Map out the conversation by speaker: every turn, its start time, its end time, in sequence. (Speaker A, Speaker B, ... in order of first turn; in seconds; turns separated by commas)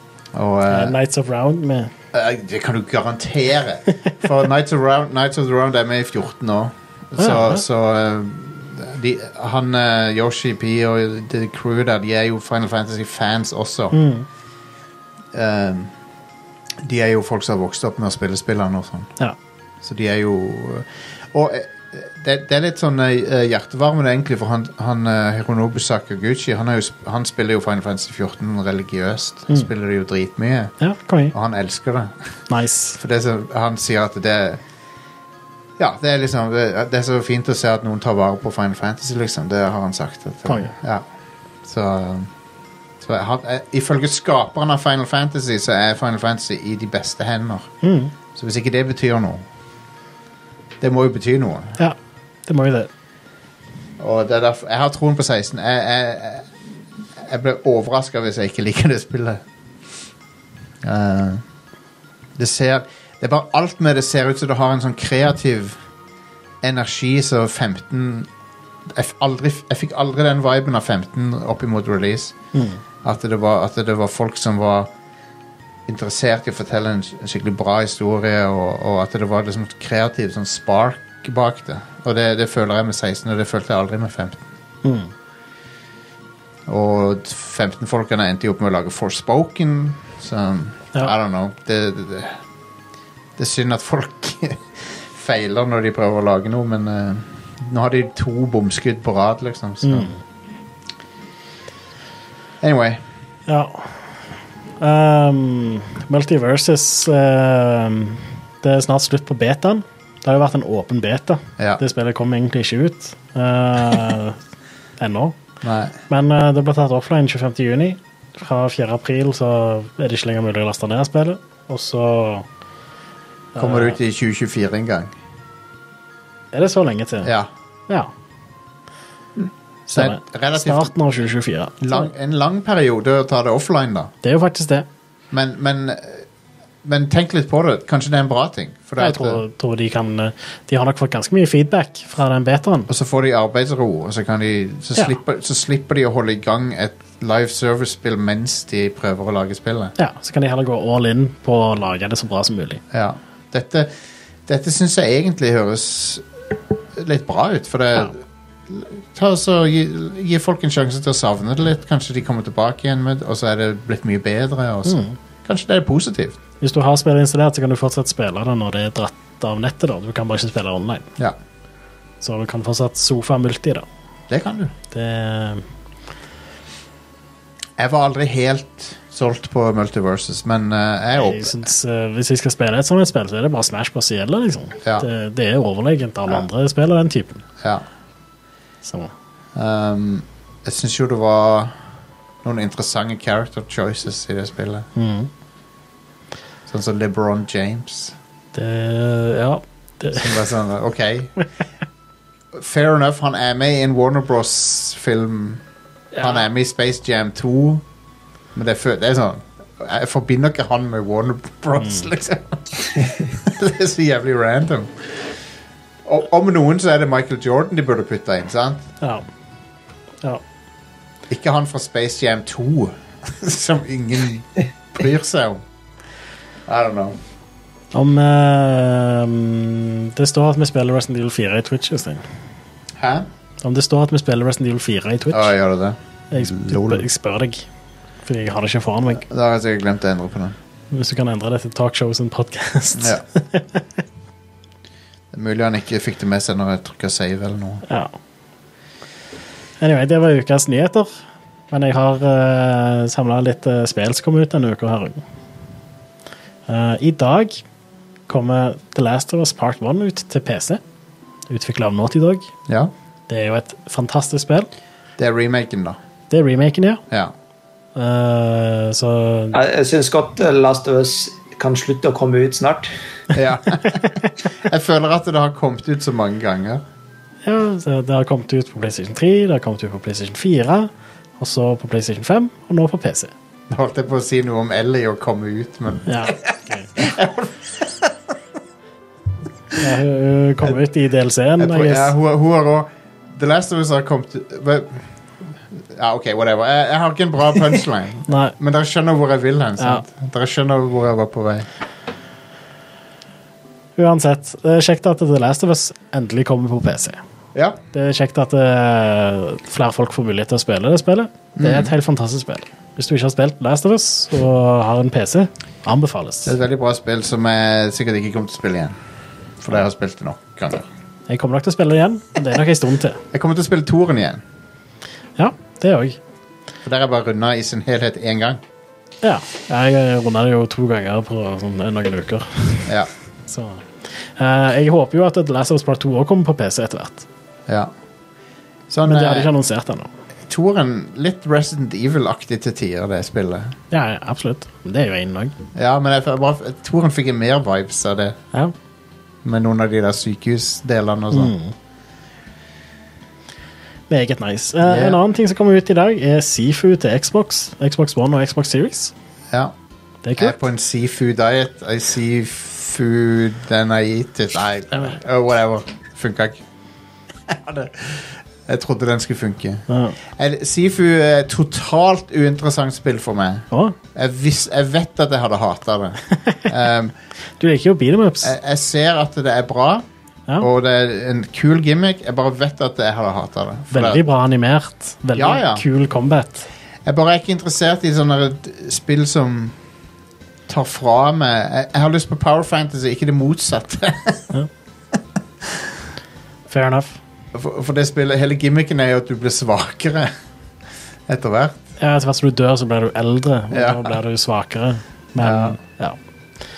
Speaker A: 0.3-0.9, Speaker B: 0.7-1.9, Speaker A: 2.1-14.0, Speaker B: 7.2-7.6, Speaker B: 13.9-14.3, Speaker A: 15.3-15.9, Speaker A: 16.8-19.1, Speaker A: 19.8-30.7, Speaker B: 30.8-31.4, Speaker A: 31.3-32.2, Speaker B: 32.5-33.0, Speaker A: 33.0-34.6, Speaker A: 35.8-41.0, Speaker B: 40.5-40.7, Speaker A: 41.6-42.3, Speaker A: 43.0-47.7, Speaker B: 47.8-48.1, Speaker A: 48.3-49.5, Speaker A: 50.8-51.8, Speaker B: 52.5-52.9, Speaker A: 54.0-56.5, Speaker A: 57.2-59.4, Speaker A: 60.8-61.4, Speaker A: 62.4-65.8, Speaker A: 66.6-68.3, Speaker A: 68.9-72.3, Speaker B: 72.5-72.8, Speaker A: 73.0-74.9, Speaker A: 75.9-84.4, Speaker B: 84.8-85.1, Speaker A: 86.7-92.4, Speaker A: 93.4-100.1, Speaker B: 99.8-100.2, Speaker A: 102.6-103.0, Speaker B: 103.5-104.1, Speaker B: 104.8-114.4, Speaker B: 115.0-115.4, Speaker A: 115.6-116.0, Speaker B: 116.1-122.5, Speaker B: 123.5-124.0, Speaker A: 123.6-125.1, Speaker B: 126.5-127.3, Speaker A: 127.2-127.5, Speaker A: 129.9-130.9, Speaker B: 129.9-132.1, Speaker A: 131.8-134.1, Speaker B: 134.2-134.9, Speaker A: 135.3-136.2, Speaker A: 136.8-139.4, Speaker B: 139.0-142.9, Speaker A: 142.9-149.9, Speaker B: 150.0-152.8, Speaker A: 152.9-153.9, Speaker A: 154.5-156.2, Speaker A: 157.0-166.4, Speaker B: 164.9-165.2, Speaker B: 166.6-171.1, Speaker B: 172.2-173.9, Speaker A: 174.3-174.7, Speaker B: 174.9-175.6, Speaker A: 177.8-181.7, Speaker B: 181.2-187.4, Speaker A: 184.8-185.1, Speaker B: 188.8-189.1, Speaker A: 189.6-191.7, Speaker A: 192.4-194.9, Speaker B: 195.0-195.3, Speaker A: 196.7-198.2, Speaker B: 198.5-200.4, Speaker A: 200.1-201.4, Speaker A: 202.5-205.6, Speaker A: 206.2-207.8, Speaker A: 208.6-215.2, Speaker A: 216.1-218.9, Speaker A: 221.3-225.6, Speaker A: 226.7-227.2, Speaker B: 227.9-232.2, Speaker A: 233.0-233.3, Speaker B: 233.6-235.5, Speaker A: 235.3-237.1, Speaker B: 236.3-237.6, Speaker B: 238.2-239.2, Speaker A: 239.2-240.6, Speaker B: 240.9-243.8, Speaker A: 243.0-243.2, Speaker A: 245.3-247.8, Speaker B: 247.9-248.1, Speaker B: 249.8-255.2, Speaker B: 256.7-257.6, Speaker B: 258.3-260.8, Speaker B: 261.5-262.5, Speaker B: 263.3-264.7, Speaker A: 265.2-266.0, Speaker B: 266.3-267.0, Speaker B: 267.9-269.6, Speaker C: 269.5-272.9, Speaker A: 273.3-276.8, Speaker B: 277.4-283.3, Speaker A: 283.7-288.2, Speaker B: 286.1-286.9, Speaker B: 289.8-292.1, Speaker A: 291.6-295.1, Speaker A: 295.7-301.7, Speaker B: 298.3-298.6, Speaker B: 299.8-300.1, Speaker B: 304.0-307.2, Speaker A: 307.5-307.8, Speaker B: 307.9-316.5, Speaker A: 311.6-311.9, Speaker A: 316.4-318.9, Speaker A: 319.6-320.9, Speaker B: 321.3-323.2, Speaker A: 323.3-324.4, Speaker B: 325.4-326.2, Speaker A: 326.8-328.6, Speaker B: 329.2-332.9, Speaker B: 333.5-337.3, Speaker A: 338.9-339.5, Speaker B: 339.1-340.1, Speaker A: 340.5-343.8, Speaker B: 343.9-345.5, Speaker A: 345.8-348.4, Speaker A: 349.4-351.5, Speaker B: 351.3-351.7, Speaker B: 354.1-359.1, Speaker A: 354.8-355.2, Speaker B: 360.2-360.6, Speaker A: 360.4-366.6, Speaker A: 367.5-377.1, Speaker B: 369.9-370.2, Speaker B: 373.7-374.0, Speaker B: 377.6-378.5, Speaker A: 378.4-380.1, Speaker A: 380.6-384.2, Speaker B: 383.9-386.7, Speaker A: 385.4-385.8, Speaker A: 387.1-389.8, Speaker A: 390.7-394.5, Speaker B: 396.7-397.2, Speaker A: 397.5-400.3, Speaker A: 401.3-401.8, Speaker B: 402.0-406.2, Speaker A: 403.7-404.1, Speaker A: 405.4-405.8